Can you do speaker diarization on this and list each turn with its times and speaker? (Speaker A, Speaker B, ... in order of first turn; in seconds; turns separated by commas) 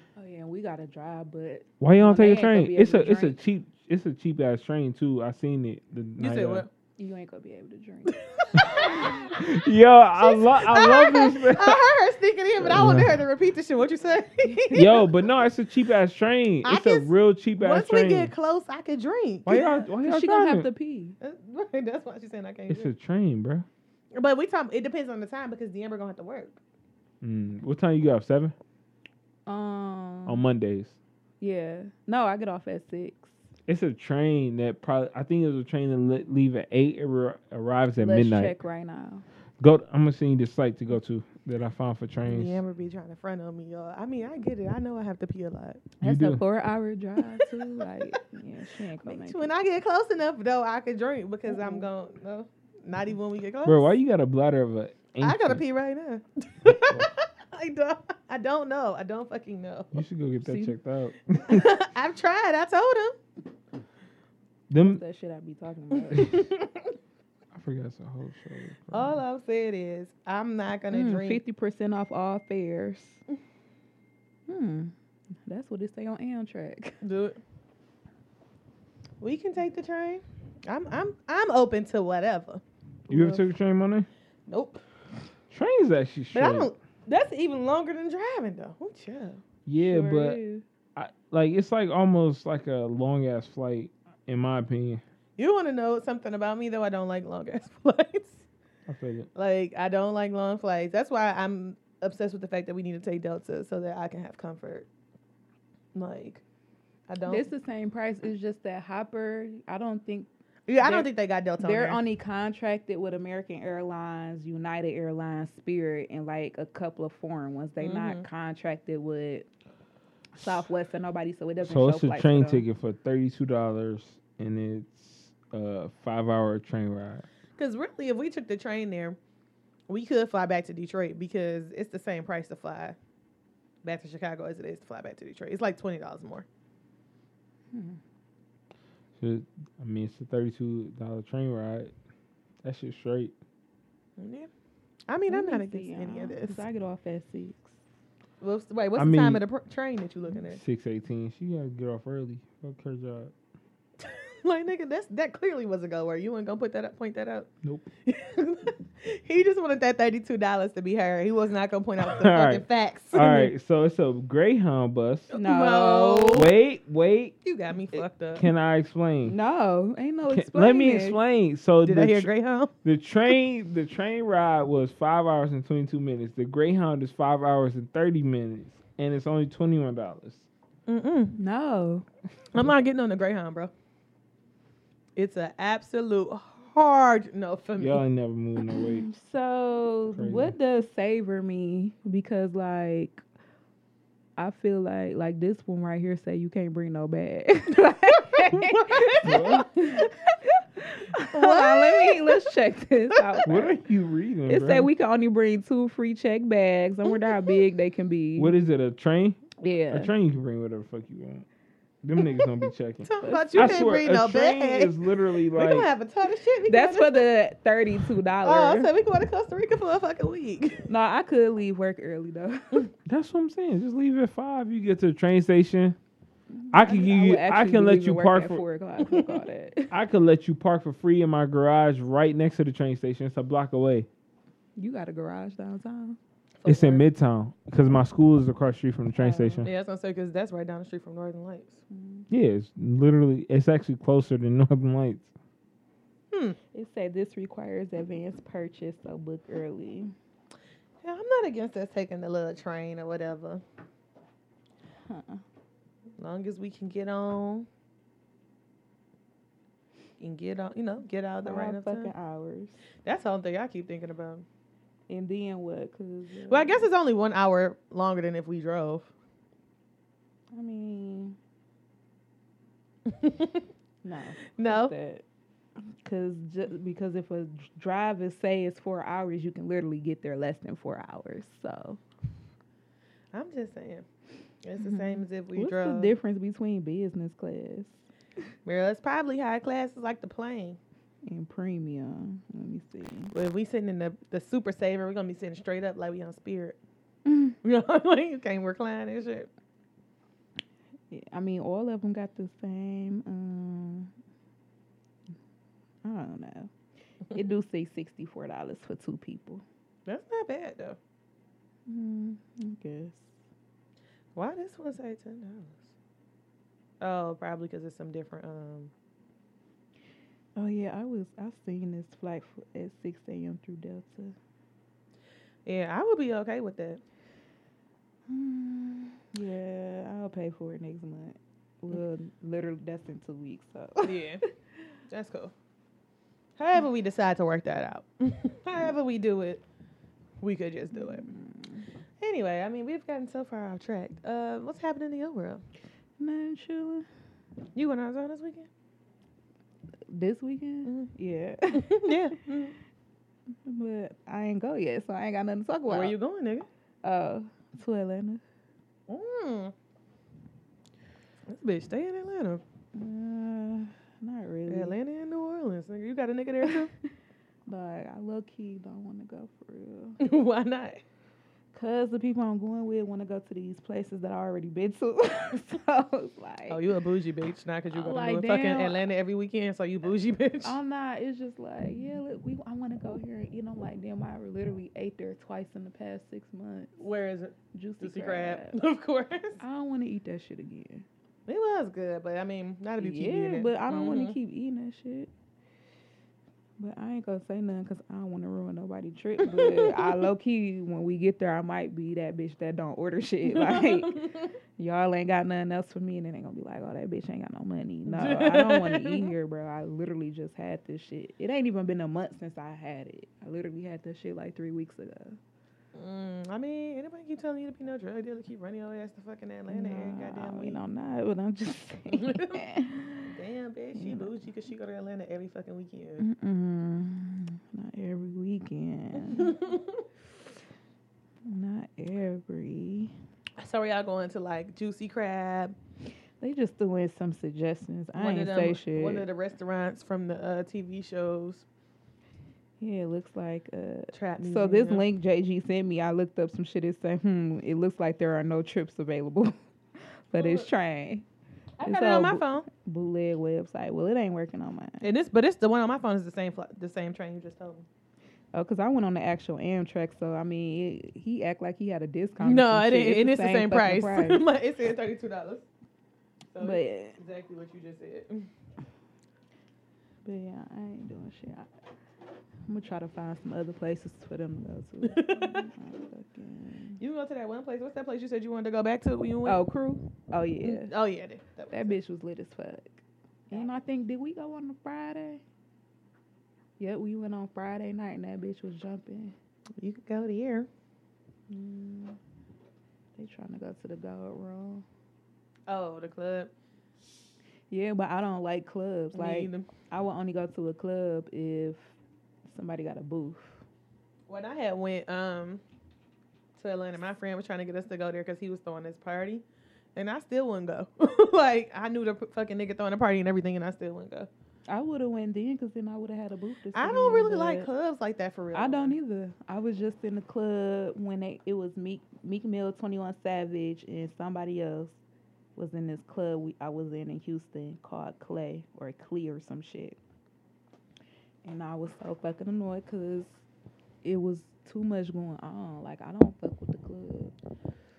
Speaker A: 0.1-3.4, Speaker B: 1.8-6.7, Speaker C: 6.2-6.7, Speaker A: 7.0-9.4, Speaker C: 8.1-9.1, Speaker B: 9.3-11.8, Speaker C: 10.2-15.1, Speaker B: 12.6-13.2, Speaker B: 14.7-18.3, Speaker C: 16.6-19.8, Speaker B: 19.4-20.7, Speaker A: 20.0-21.2, Speaker C: 21.2-22.9, Speaker B: 22.7-23.6, Speaker C: 24.1-26.6, Speaker B: 27.2-28.5, Speaker A: 29.4-30.4, Speaker B: 30.2-30.9, Speaker A: 31.4-33.4, Speaker B: 33.7-38.5, Speaker A: 38.0-39.2, Speaker B: 39.6-42.6, Speaker C: 42.2-45.8, Speaker B: 46.0-46.4, Speaker A: 46.0-49.5, Speaker C: 47.4-47.8, Speaker C: 49.0-54.0, Speaker A: 51.5-51.8, Speaker B: 53.6-55.6, Speaker C: 55.2-60.0, Speaker B: 56.7-57.1, Speaker B: 59.9-61.8, Speaker A: 60.4-60.7, Speaker C: 61.5-63.2, Speaker B: 64.7-65.0, Speaker A: 64.8-66.5, Speaker C: 66.0-66.9, Speaker B: 67.5-69.2, Speaker C: 68.9-71.4, Speaker A: 70.9-73.2, Speaker A: 74.5-74.9, Speaker A: 75.5-77.0, Speaker C: 77.0-77.4, Speaker C: 79.2-82.6, Speaker B: 83.1-84.1, Speaker C: 84.5-84.8, Speaker B: 85.5-86.7, Speaker C: 86.3-89.4, Speaker B: 89.7-90.4, Speaker A: 89.8-90.6, Speaker B: 91.0-95.0, Speaker C: 95.4-98.5, Speaker B: 98.9-99.3, Speaker C: 99.3-104.9, Speaker C: 105.9-106.4, Speaker C: 107.1-107.5, Speaker A: 107.2-110.3, Speaker C: 110.7-112.0, Speaker A: 110.8-119.5, Speaker C: 117.8-118.2, Speaker A: 120.3-122.6, Speaker B: 121.6-127.2, Speaker C: 127.6-129.2, Speaker C: 129.9-132.9, Speaker C: 133.8-136.4, Speaker A: 137.7-138.0, Speaker B: 139.2-141.9, Speaker B: 142.6-143.3, Speaker C: 144.2-144.5, Speaker C: 145.1-146.6, Speaker A: 145.3-147.8, Speaker C: 148.4-150.6, Speaker B: 148.9-149.4, Speaker B: 150.4-153.3, Speaker C: 154.0-157.5, Speaker C: 158.1-163.5, Speaker B: 162.0-165.3, Speaker C: 165.3-166.5, Speaker A: 165.3-166.5, Speaker B: 166.3-167.3, Speaker C: 167.4-168.5, Speaker B: 167.9-169.3, Speaker A: 169.2-171.2, Speaker B: 170.3-172.3, Speaker C: 171.8-172.7, Speaker B: 172.8-180.5, Speaker C: 180.9-181.3, Speaker A: 181.3-182.1, Speaker C: 182.5-183.7, Speaker C: 185.2-188.0, Speaker B: 187.8-189.1, Speaker A: 188.8-193.2, Speaker B: 190.1-190.5, Speaker A: 194.4-203.8, Speaker C: 198.4-200.0, Speaker B: 199.2-199.7, Speaker C: 201.3-202.4, Speaker B: 203.4-204.9, Speaker A: 204.5-208.5, Speaker C: 207.1-207.6, Speaker B: 208.4-211.4, Speaker A: 209.6-210.1, Speaker B: 212.0-215.9, Speaker C: 213.0-214.9, Speaker A: 213.2-213.9, Speaker C: 215.5-217.2, Speaker A: 216.7-218.9, Speaker C: 218.4-220.8, Speaker A: 220.9-222.9, Speaker B: 223.1-226.0, Speaker A: 226.5-229.9, Speaker B: 226.7-228.6, Speaker B: 229.9-234.1, Speaker A: 234.8-236.2, Speaker C: 236.6-237.0, Speaker B: 236.7-239.7, Speaker A: 239.2-239.7, Speaker C: 239.6-241.8, Speaker A: 241.9-242.3, Speaker B: 242.3-245.3, Speaker A: 246.7-250.1, Speaker C: 251.0-253.6, Speaker A: 255.0-255.4, Speaker C: 256.2-257.7, Speaker C: 260.2-262.1, Speaker A: 261.4-262.8, Speaker C: 263.0-264.4, Speaker A: 265.1-266.9, Speaker C: 266.5-269.1, Speaker A: 270.5-271.4, Speaker C: 273.1-273.6, Speaker A: 274.0-275.2, Speaker C: 274.5-274.9, Speaker A: 276.0-282.0, Speaker C: 283.3-284.1, Speaker C: 284.6-286.1, Speaker A: 284.8-288.0, Speaker C: 288.6-290.8, Speaker A: 291.2-293.3, Speaker C: 293.3-296.8, Speaker A: 297.2-297.6, Speaker C: 297.6-299.5, Speaker A: 301.1-304.1, Speaker A: 306.0-306.7, Speaker A: 307.3-309.6, Speaker C: 310.1-311.0, Speaker A: 311.9-313.3, Speaker C: 314.3-315.9, Speaker C: 317.0-318.9, Speaker A: 320.5-324.3, Speaker C: 325.6-327.0, Speaker A: 328.3-334.5, Speaker C: 334.0-334.4, Speaker C: 335.1-335.5, Speaker C: 336.6-339.6, Speaker C: 340.4-341.3, Speaker A: 340.9-341.9, Speaker C: 342.2-345.6, Speaker A: 346.2-347.1, Speaker C: 347.7-348.7, Speaker A: 350.1-352.1, Speaker C: 350.9-351.1, Speaker C: 351.7-352.7, Speaker A: 353.6-356.1, Speaker C: 355.9-356.7, Speaker A: 357.0-358.4, Speaker C: 359.1-359.7, Speaker C: 361.5-362.6, Speaker A: 362.9-364.9, Speaker C: 364.7-366.9, Speaker A: 367.7-370.2, Speaker C: 370.2-371.0, Speaker A: 371.7-376.8, Speaker C: 376.7-380.7, Speaker A: 377.9-379.0, Speaker A: 380.6-387.0, Speaker C: 387.0-389.6, Speaker A: 387.7-388.8, Speaker A: 389.6-391.0, Speaker C: 391.5-394.3, Speaker A: 393.0-395.3, Speaker A: 396.8-415.4, Speaker C: 399.4-400.2, Speaker C: 403.5-404.5, Speaker C: 408.1-409.3, Speaker C: 415.9-420.8, Speaker A: 419.7-423.3, Speaker C: 422.2-422.6, Speaker C: 423.3-426.2, Speaker A: 424.0-424.3, Speaker A: 426.2-429.6, Speaker C: 429.2-430.0, Speaker A: 431.4-433.1, Speaker C: 433.6-435.8, Speaker A: 436.4-439.3, Speaker C: 438.1-441.6, Speaker A: 442.8-451.2, Speaker C: 444.1-445.1, Speaker C: 450.3-450.7, Speaker C: 451.8-452.7, Speaker A: 451.8-455.0, Speaker C: 455.0-457.9, Speaker A: 458.5-464.4, Speaker C: 462.4-465.6, Speaker C: 466.5-468.5, Speaker A: 466.6-467.2, Speaker A: 470.2-471.7, Speaker A: 472.7-477.0, Speaker C: 475.0-475.7, Speaker C: 477.0-479.6, Speaker A: 479.4-480.9, Speaker C: 480.6-482.0, Speaker A: 481.7-485.4, Speaker A: 486.8-489.3, Speaker C: 489.8-490.7, Speaker A: 491.5-492.2, Speaker A: 493.2-494.8, Speaker C: 495.7-496.5, Speaker A: 497.7-501.9, Speaker C: 499.1-499.7, Speaker A: 502.4-503.6, Speaker C: 504.3-505.6, Speaker C: 506.6-509.4, Speaker C: 509.9-514.3, Speaker A: 514.7-517.7, Speaker C: 516.7-518.9, Speaker A: 518.5-525.0, Speaker A: 525.5-530.0, Speaker A: 531.4-533.4, Speaker A: 534.0-537.3